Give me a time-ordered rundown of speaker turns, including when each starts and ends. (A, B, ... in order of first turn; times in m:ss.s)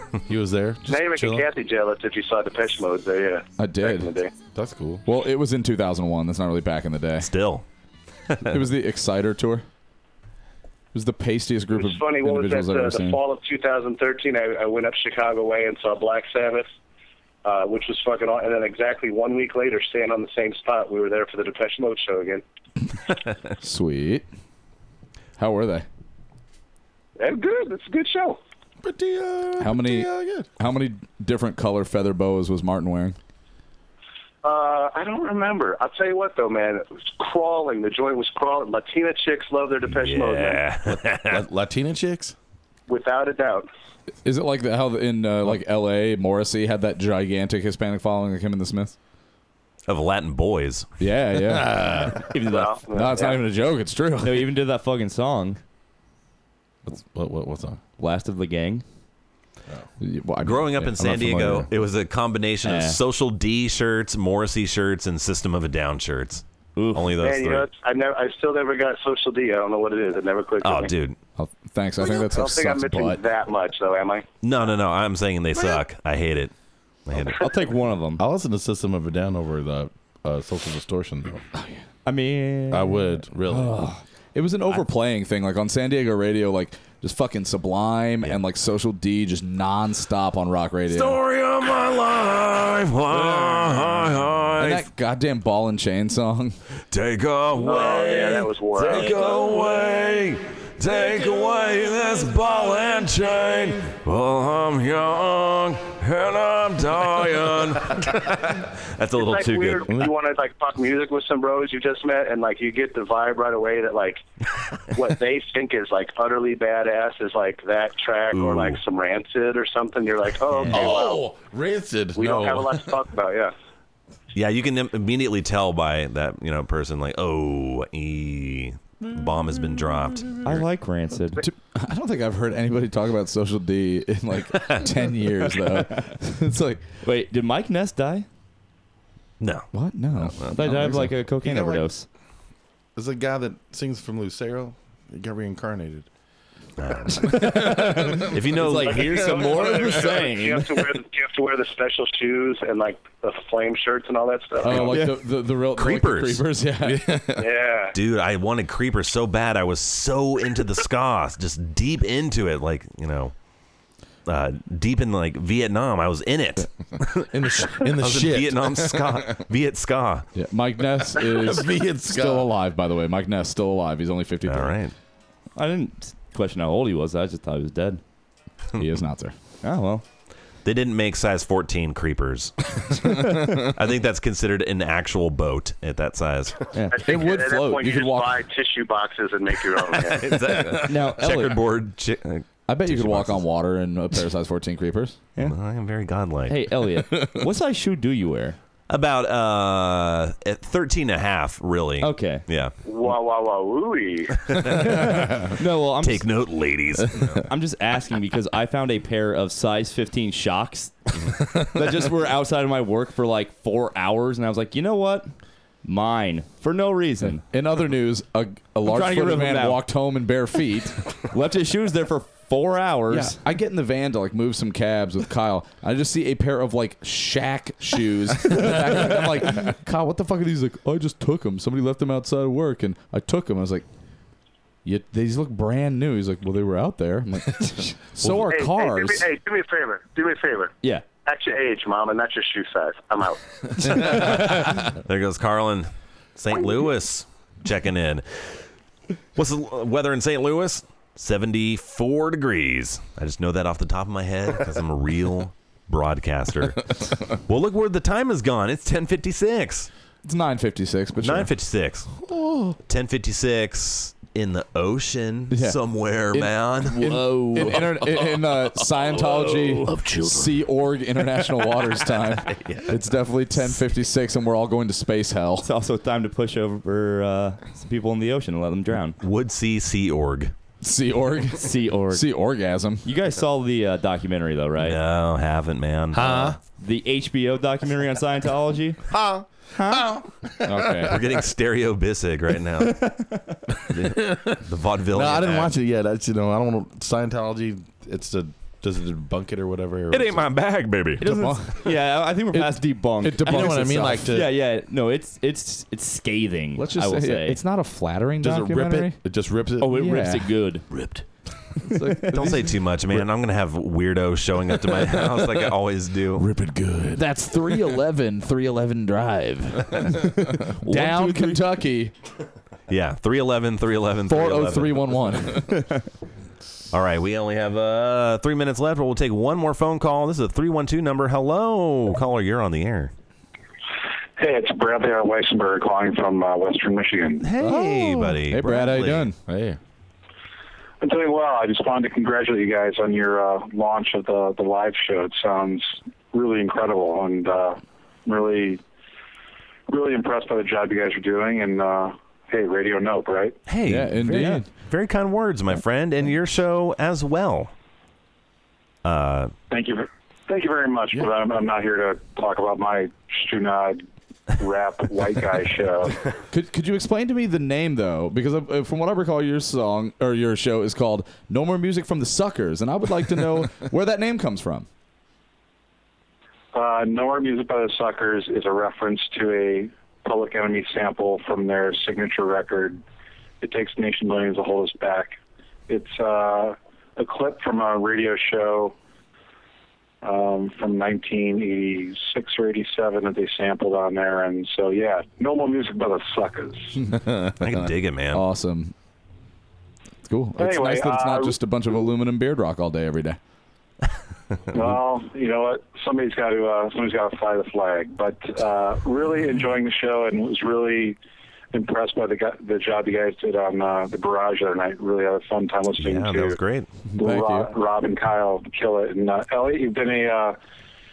0:00.2-0:01.4 A
0:00.8-0:04.3 B
0:03.6-0:04.1 C
0:04.5-0:05.0 A
0:05.0-0:07.3 C
0:07.2-0:07.6 D
0:08.5-0:09.6 C
0:10.9-0:13.2 C
0:11.7-0:16.7 B
0:17.4-0:22.4 B
0:23.6-0:24.2 C
0:25.4-0:25.8 C
0:27.2-0:28.4 B
0:28.8-0:30.5 A
0:29.6-0:33.2 C
0:34.4-0:40.6 B
0:39.9-0:41.4 D
0:40.9-0:42.3 A
0:42.9-0:43.7 B
0:44.2-0:49.0 C
0:49.9-0:50.9 D
0:51.0-0:52.3 C
0:51.4-0:52.2 A
0:52.3-0:52.8 E
0:52.4-0:53.4 B
0:52.9-0:54.5 C
0:54.2-0:55.6 E
0:56.9-0:57.8 A
0:58.0-0:58.8 E
1:00.0-1:01.7 C
1:00.4-1:07.7 D
1:02.6-1:03.0 E
1:06.8-1:07.1 E
1:07.2-1:10.9 B
1:10.6-1:11.2 D
1:11.4-1:13.2 C
1:12.0-1:14.3 B
1:14.4-1:16.5 D
1:17.0-1:17.4 D
1:17.3-1:18.2 E
1:18.2-1:21.4 A
1:21.5-1:21.8 C
1:22.0-1:23.0 E
1:22.7-1:23.8 A
1:23.5-1:31.2 C
1:30.9-1:34.9 D
1:33.1-1:34.0 A
1:34.5-1:36.6 C
1:36.9-1:49.9 D
1:37.6-1:39.4 B
1:49.2-1:54.2 B
1:49.9-1:50.1 A
1:54.9-2:01.3 B
1:58.3-1:58.8 D
2:00.5-2:01.0 D
2:00.7-2:02.9 A
2:02.1-2:03.5 B
2:04.3-2:10.7 D
2:09.0-2:10.4 A
2:10.4-2:11.4 E
2:11.4-2:16.9 C
2:17.0-2:18.2 E
2:19.4-2:19.7 D
2:19.7-2:21.1 C
2:20.4-2:22.0 E
2:20.6-2:21.9 A
2:23.0-2:26.1 A
2:26.8-2:27.6 D
2:27.2-2:28.5 A
2:27.3-2:30.9 E
2:28.3-2:29.6 D
2:28.8-2:34.9 B
2:29.4-2:30.2 A
2:34.6-2:37.2 C
2:34.9-2:35.1 E
2:35.7-2:36.4 D
2:36.8-2:37.4 A
2:37.4-2:37.9 B
2:37.9-2:43.3 D
2:44.2-2:50.3 D
2:47.3-2:49.4 A
2:50.3-2:54.8 C
2:51.1-2:52.5 A
2:54.4-2:54.9 D
2:55.6-2:58.0 E
2:58.8-2:59.3 C
2:59.6-3:00.0 E
3:00.6-3:06.6 D
3:06.7-3:07.0 E
3:06.9-3:10.3 B
3:07.0-3:08.4 C
3:09.9-3:13.4 D
3:10.8-3:11.7 E
3:12.7-3:15.2 C
3:15.4-3:16.6 D
3:16.4-3:18.6 E
3:18.9-3:22.7 D
3:22.0-3:22.4 E
3:22.8-3:24.4 B
3:24.8-3:26.3 E
3:26.0-3:27.4 D
3:27.5-3:35.3 E
3:35.8-3:37.4 E
3:37.2-3:41.0 C
3:38.8-3:39.8 E
3:41.3-3:43.4 E
3:43.1-3:53.8 C
3:54.8-3:59.3 C
3:58.2-4:04.2 B
4:05.0-4:08.6 D
4:09.3-4:19.9 D
4:20.2-4:21.5 C
4:21.2-4:22.2 D
4:22.3-4:22.8 A
4:22.8-4:27.1 D
4:25.5-4:35.7 C
4:26.8-4:28.3 E
4:29.1-4:30.6 E
4:32.5-4:32.9 D
4:35.6-4:39.2 E
4:39.2-4:40.5 D
4:40.8-4:43.0 C
4:41.6-4:42.3 E
4:43.0-4:45.0 E
4:44.8-4:46.6 D
4:46.1-4:46.6 A
4:46.8-4:49.0 E
4:49.2-4:51.1 A
4:49.7-4:50.2 E
4:50.6-4:51.2 C
4:51.0-4:53.1 D
4:52.9-4:53.6 E
4:53.9-4:55.7 D
4:53.9-4:54.6 A
4:55.1-5:00.5 A
5:00.1-5:01.5 D
5:01.2-5:07.6 E
5:01.2-5:04.3 C
5:03.3-5:04.6 A
5:06.8-5:09.2 C
5:08.4-5:10.0 A
5:09.8-5:10.5 C
5:09.8-5:11.2 E
5:11.8-5:12.4 E
5:11.8-5:12.8 C
5:12.3-5:16.5 D
5:16.4-5:17.2 A
5:17.1-5:22.1 C
5:20.8-5:21.7 E
5:22.9-5:25.2 D
5:24.3-5:25.7 C
5:25.7-5:26.0 E
5:26.9-5:33.1 D
5:34.4-5:37.4 F
5:37.4-5:39.3 D
5:37.6-5:39.4 C
5:39.5-5:39.8 A
5:41.0-5:48.8 F
5:49.9-5:53.6 F
5:53.6-5:57.7 D
5:53.9-5:54.7 C
5:59.0-5:59.5 D
5:59.7-6:04.0 F
6:04.5-6:06.2 F
6:06.5-6:14.9 C
6:16.7-6:23.0 F
6:23.6-6:25.4 F
6:25.9-6:28.9 F
6:30.2-6:37.0 F
6:37.6-6:38.4 D
6:38.3-6:38.9 C
6:40.2-6:43.4 C
6:40.6-6:41.8 F
6:44.7-6:51.2 F
6:51.7-6:56.6 F
6:56.0-6:56.9 D
6:57.1-6:57.7 C
6:57.2-7:00.6 F